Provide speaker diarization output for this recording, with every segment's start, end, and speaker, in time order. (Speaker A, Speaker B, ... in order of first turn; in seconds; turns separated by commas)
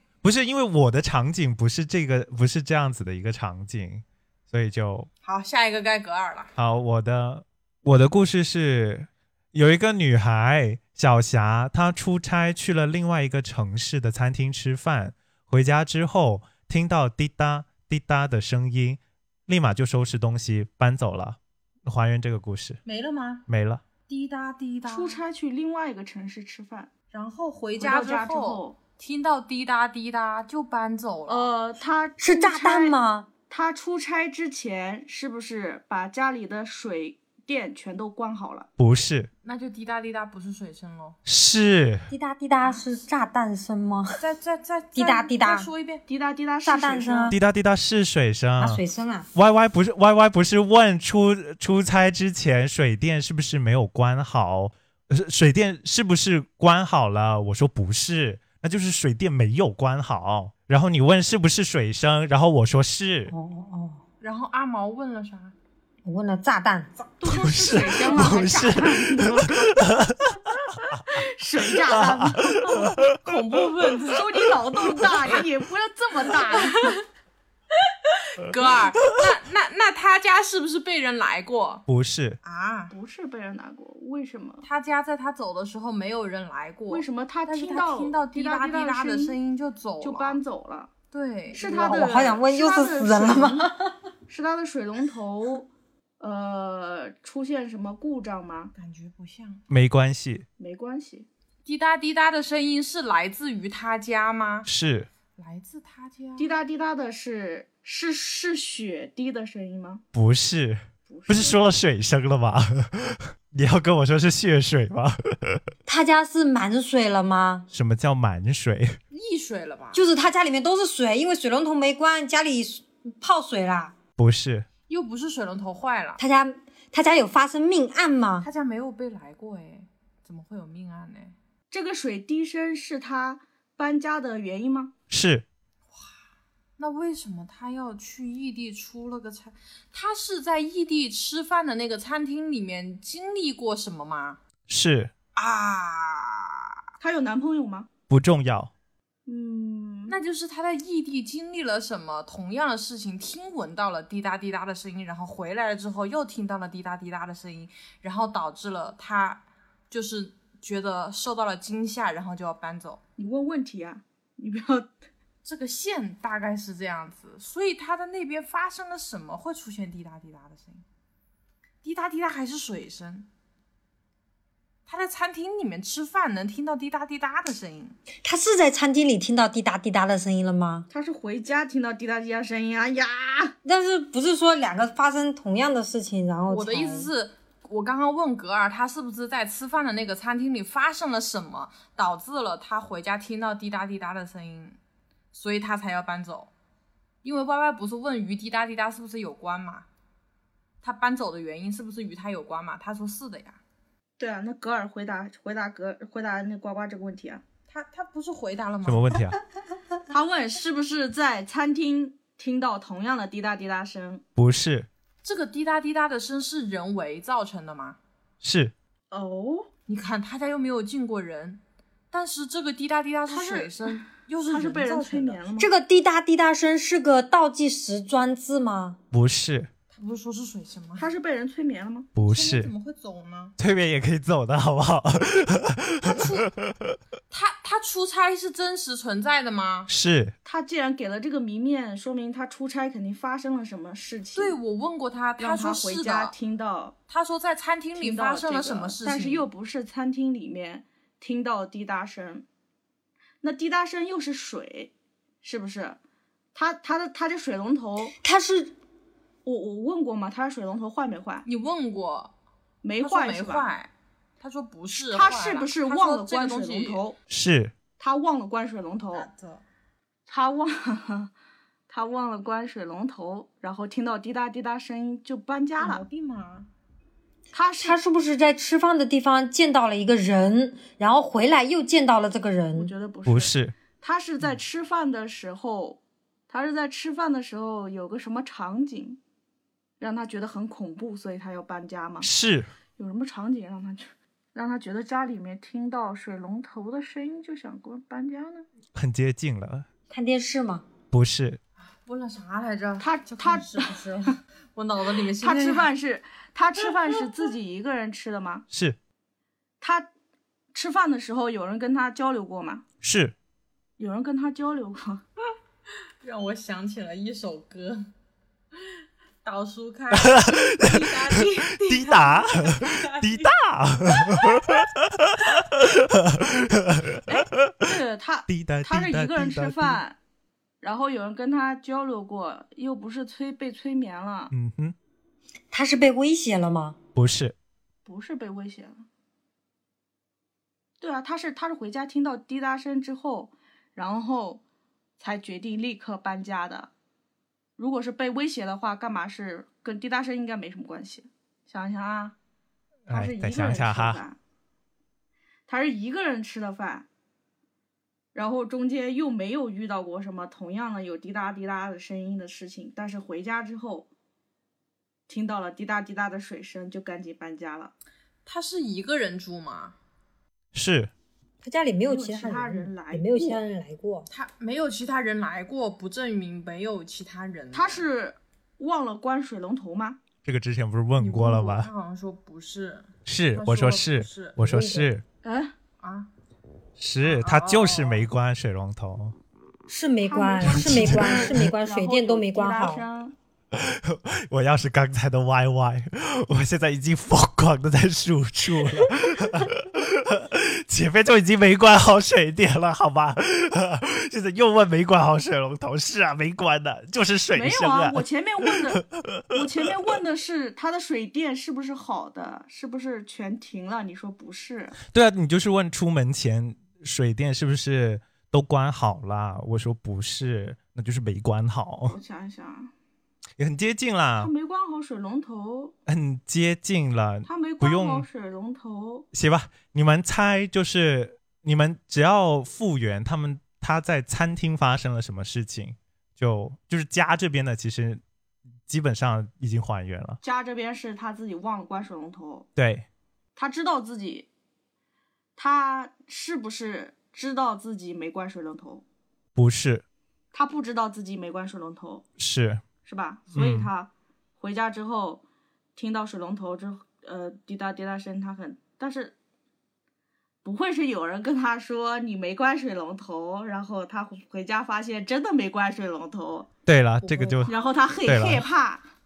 Speaker A: 0.2-5.1, Speaker B: 5.2-6.5, Speaker A: 6.6-22.8, Speaker B: 22.9-23.4, Speaker A: 23.5-23.8, Speaker B: 24.1-25.2, Speaker C: 24.9-26.9, Speaker B: 27.1-31.5, Speaker C: 27.8-28.8, Speaker C: 31.3-33.0, Speaker D: 32.2-33.3, Speaker C: 33.5-38.7, Speaker A: 38.8-39.3, Speaker B: 39.4-41.2, Speaker A: 41.3-42.1, Speaker D: 42.1-44.2, Speaker B: 44.2-46.0, Speaker D: 45.0-45.7, Speaker C: 46.1-47.4, Speaker D: 46.6-47.4, Speaker A: 47.3-48.8, Speaker D: 48.6-49.3, Speaker A: 49.3-63.3, Speaker D: 63.3-64.0, Speaker B: 64.2-65.5, Speaker D: 66.0-67.1, Speaker C: 67.2-69.8, Speaker A: 67.2-71.0, Speaker C: 71.1-72.9, Speaker A: 71.8-73.1, Speaker B: 73.2-74.3, Speaker C: 74.1-77.0, Speaker B: 74.9-75.4, Speaker B: 76.4-77.0, Speaker B: 78.0-81.8, Speaker A: 81.9-82.4, Speaker B: 82.4-82.9, Speaker C: 82.9-84.6, Speaker B: 84.6-90.4, Speaker C: 86.9-89.4, Speaker C: 90.0-90.9, Speaker B: 91.1-91.7, Speaker C: 91.5-93.7, Speaker D: 91.6-94.0, Speaker C: 94.3-95.7, Speaker C: 96.2-98.7, Speaker B: 98.8-99.6, Speaker A: 99.7-100.5, Speaker C: 100.6-101.3, Speaker B: 101.7-104.7, Speaker A: 104.7-105.1, Speaker B: 105.4-106.5, Speaker C: 106.4-110.0, Speaker A: 110.1-115.6, Speaker C: 111.1-111.6, Speaker D: 115.9-117.7, Speaker A: 117.7-119.0, Speaker B: 119.1-120.0, Speaker D: 119.9-124.0, Speaker A: 124.2-124.7, Speaker B: 124.9-126.2, Speaker D: 126.2-128.5, Speaker B: 128.4-131.3, Speaker C: 131.7-134.9, Speaker A: 135.1-135.5, Speaker B: 136.8-144.4, Speaker A: 144.7-145.1, Speaker B: 145.4-146.7, Speaker C: 147.0-147.9, Speaker A: 148.1-148.7, Speaker C: 149.3-150.2, Speaker B: 150.1-163.0, Speaker C: 163.2-164.9, Speaker B: 165.4-170.8, Speaker B: 171.8-173.3, Speaker B: 174.9-178.0, Speaker D: 178.2-180.9, Speaker C: 180.9-183.5, Speaker D: 183.7-187.1, Speaker B: 186.5-194.8, Speaker B: 195.3-196.5, Speaker B: 197.2-199.9, Speaker B: 200.8-203.6, Speaker C: 204.2-207.4, Speaker B: 207.7-209.2, Speaker A: 208.8-209.4, Speaker C: 210.1-214.2, Speaker A: 214.4-214.9, Speaker B: 215.2-218.0, Speaker A: 218.4-218.7, Speaker C: 219.1-219.7, Speaker B: 219.9-225.4, Speaker C: 223.3-225.7, Speaker D: 225.6-229.0, Speaker A: 229.1-229.7, Speaker B: 229.9-231.1, Speaker C: 231.0-232.1, Speaker A: 232.2-232.7, Speaker B: 232.2-233.6, Speaker A: 233.6-237.0, Speaker B: 236.0-236.5, Speaker B: 237.3-239.9, Speaker A: 239.9-240.3, Speaker C: 240.4-244.6, Speaker B: 244.3-246.3, Speaker C: 245.4-247.0, Speaker B: 247.1-249.5, Speaker C: 248.0-252.5, Speaker C: 253.4-256.0, Speaker C: 256.6-258.1, Speaker D: 258.1-258.8, Speaker C: 259.4-261.5, Speaker B: 261.4-262.3, Speaker C: 262.8-263.7, Speaker B: 263.0-267.0, Speaker C: 264.9-267.2, Speaker A: 267.3-267.7, Speaker C: 268.0-269.3, Speaker B: 269.1-269.6, Speaker C: 270.3-271.3, Speaker C: 271.9-276.1, Speaker B: 275.8-276.7, Speaker C: 277.5-278.0, Speaker D: 277.8-282.9, Speaker C: 282.7-289.2, Speaker A: 283.3-283.8, Speaker C: 290.0-292.3, Speaker A: 292.2-292.7, Speaker C: 293.0-298.7, Speaker A: 298.9-299.9, Speaker D: 300.1-300.9, Speaker A: 301.1-301.6, Speaker B: 302.0-305.9, Speaker C: 303.0-303.9, Speaker C: 305.4-308.6, Speaker A: 308.7-309.0, Speaker C: 309.8-310.1, Speaker C: 310.7-312.9, Speaker A: 313.0-313.4, Speaker C: 314.0-315.2, Speaker B: 316.2-318.1, Speaker B: 319.4-323.6, Speaker A: 320.1-327.7, Speaker B: 324.2-324.8, Speaker C: 327.3-330.2, Speaker A: 328.5-330.0, Speaker C: 330.8-334.5, Speaker A: 334.5-334.9, Speaker D: 335.7-337.0, Speaker A: 337.1-337.6, Speaker C: 338.1-339.1, Speaker C: 341.0-344.6, Speaker C: 345.2-346.9, Speaker C: 347.8-352.4, Speaker C: 353.1-354.4, Speaker A: 353.1-354.2, Speaker C: 355.7-357.1, Speaker C: 358.3-364.1, Speaker C: 365.3-367.9, Speaker B: 368.5-370.0, Speaker A: 370.7-371.1, Speaker D: 371.6-374.3, Speaker C: 372.1-373.6, Speaker B: 374.3-378.0, Speaker C: 377.7-380.2, Speaker A: 380.4-381.9, Speaker B: 381.2-384.6, Speaker A: 383.3-385.2, Speaker D: 384.6-385.1, Speaker C: 385.4-385.8, Speaker B: 386.0-386.3, Speaker A: 387.0-389.4, Speaker B: 387.2-388.3, Speaker D: 389.9-393.1, Speaker C: 390.2-393.4, Speaker A: 390.6-391.6, Speaker A: 393.7-408.2, Speaker C: 407.5-415.0, Speaker A: 408.9-409.6, Speaker A: 415.1-422.2, Speaker C: 422.1-422.9, Speaker A: 423.6-424.5, Speaker C: 424.4-425.9, Speaker A: 426.1-428.3, Speaker C: 427.5-429.3, Speaker A: 429.3-438.2, Speaker A: 438.9-440.4, Speaker C: 440.4-442.7, Speaker A: 442.8-443.1, Speaker C: 443.6-444.5, Speaker C: 445.6-449.0, Speaker A: 449.6-450.0, Speaker C: 450.5-452.2, Speaker A: 452.4-452.8, Speaker C: 453.1-455.4, Speaker A: 453.5-453.9, Speaker C: 456.0-459.4, Speaker C: 460.6-466.7, Speaker A: 466.9-467.7, Speaker B: 467.2-467.7, Speaker C: 467.7-469.0, Speaker A: 468.2-468.7